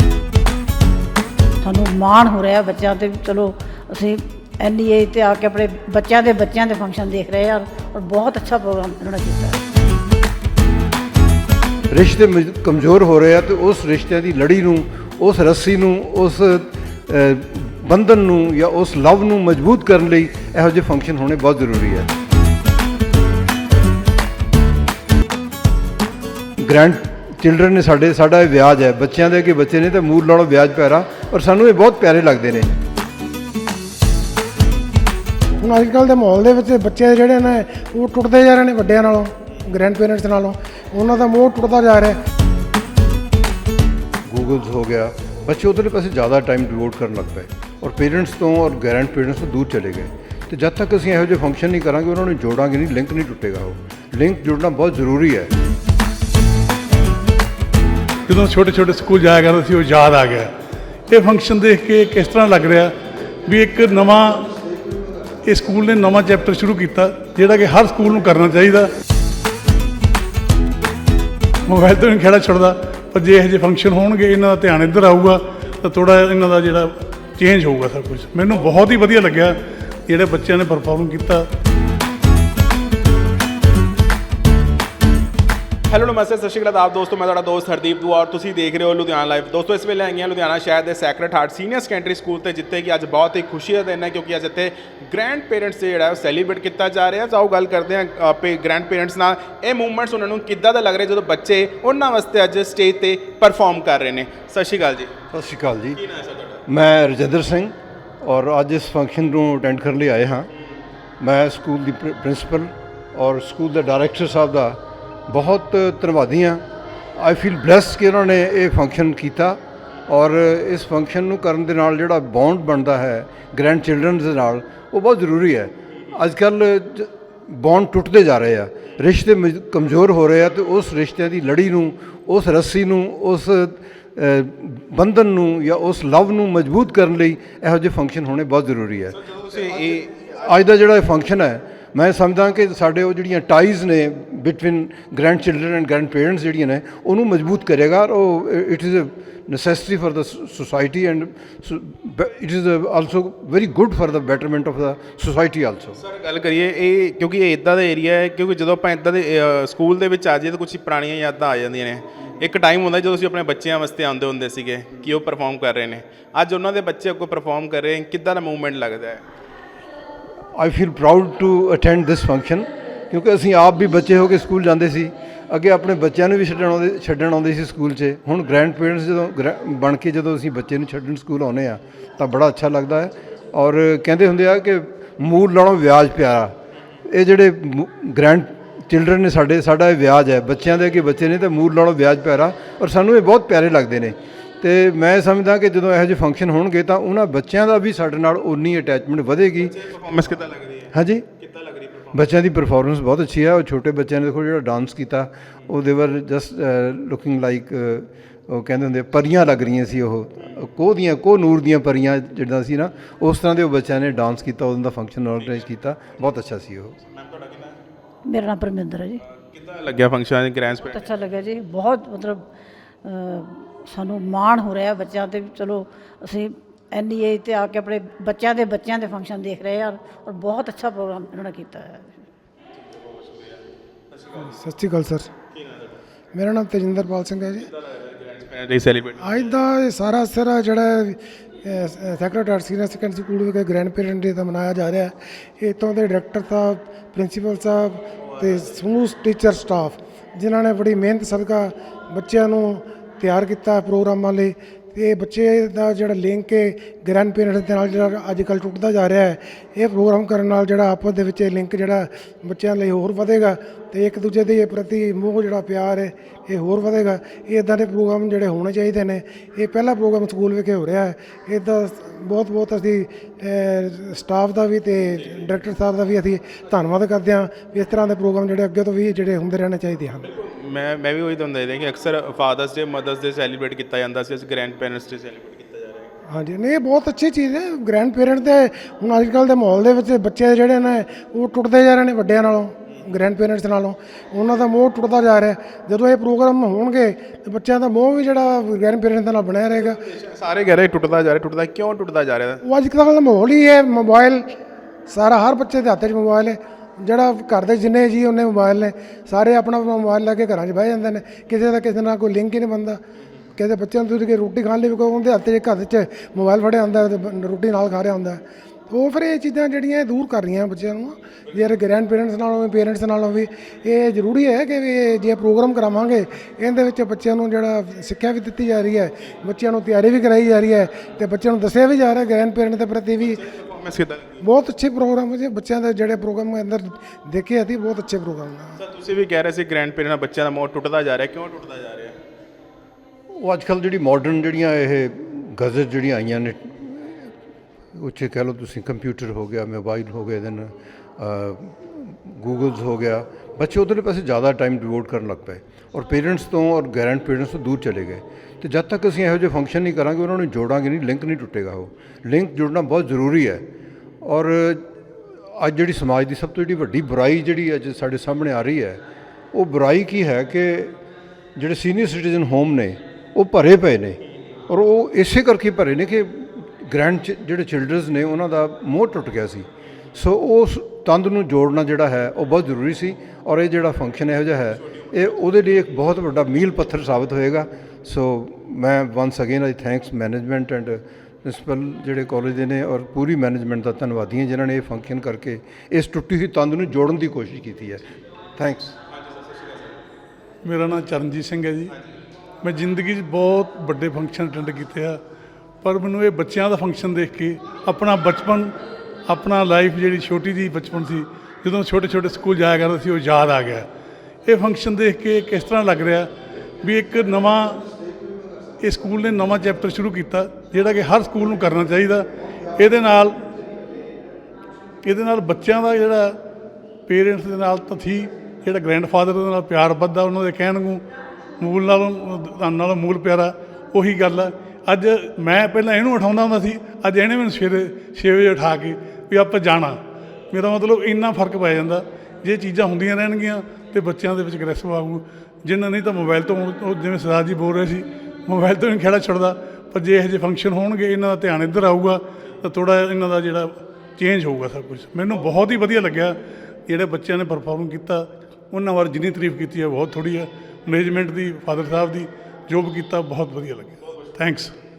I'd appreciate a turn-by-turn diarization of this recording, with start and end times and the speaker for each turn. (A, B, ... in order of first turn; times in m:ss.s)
0:01.6-0:09.6 A
0:11.9-0:22.1 B
0:26.6-0:32.7 B
0:35.6-0:42.2 C
0:44.2-0:55.5 B
0:58.3-1:00.5 D
1:01.1-1:02.9 D
1:03.5-1:04.5 D
1:05.4-1:08.9 D
1:11.7-1:21.5 D
1:25.9-1:45.1 E
1:45.3-1:46.0 B
1:45.9-1:46.6 E
1:46.7-1:50.5 B
1:51.2-1:56.6 B
1:57.2-2:36.0 B
2:19.2-2:20.3 E
2:36.0-2:49.2 E
2:50.6-3:06.5 B
3:07.1-3:19.8 B
3:19.6-3:22.2 E
3:20.9-3:21.3 B
3:22.1-3:37.0 B
3:37.0-3:37.8 E
3:38.3-3:39.2 A
3:39.4-3:41.1 E
3:40.8-3:42.4 A
3:43.0-3:52.2 A
3:52.9-3:53.6 E
3:54.1-3:54.6 E
3:54.4-3:55.3 C
3:55.5-3:56.0 E
3:56.3-3:57.7 C
3:57.6-3:59.5 E
3:59.2-4:40.3 C
4:08.3-4:08.6 E
4:40.2-4:46.1 E
4:46.3-5:00.0 C
4:59.8-5:02.6 E
5:02.6-5:04.4 C
5:05.1-5:13.0 C
5:13.6-5:33.4 C
5:33.2-5:34.4 E
5:34.4-5:38.8 C
5:38.8-5:42.2 E
5:43.4-5:47.3 B
5:48.0-6:03.6 B
6:04.2-6:04.9 B
6:05.4-6:09.0 B
6:09.5-6:11.0 B
6:11.6-6:38.0 B
6:24.8-6:25.8 E
6:38.6-6:38.9 B
6:39.1-6:40.0 E
6:40.6-6:41.9 D
6:42.6-6:45.2 D
6:45.8-6:48.7 D
6:49.3-6:53.9 D
6:54.5-6:56.3 D
6:56.8-6:57.8 D
6:58.8-7:03.4 D
7:05.0-7:06.4 D
7:07.1-7:11.0 D
7:11.6-7:20.0 D
7:20.5-7:44.7 D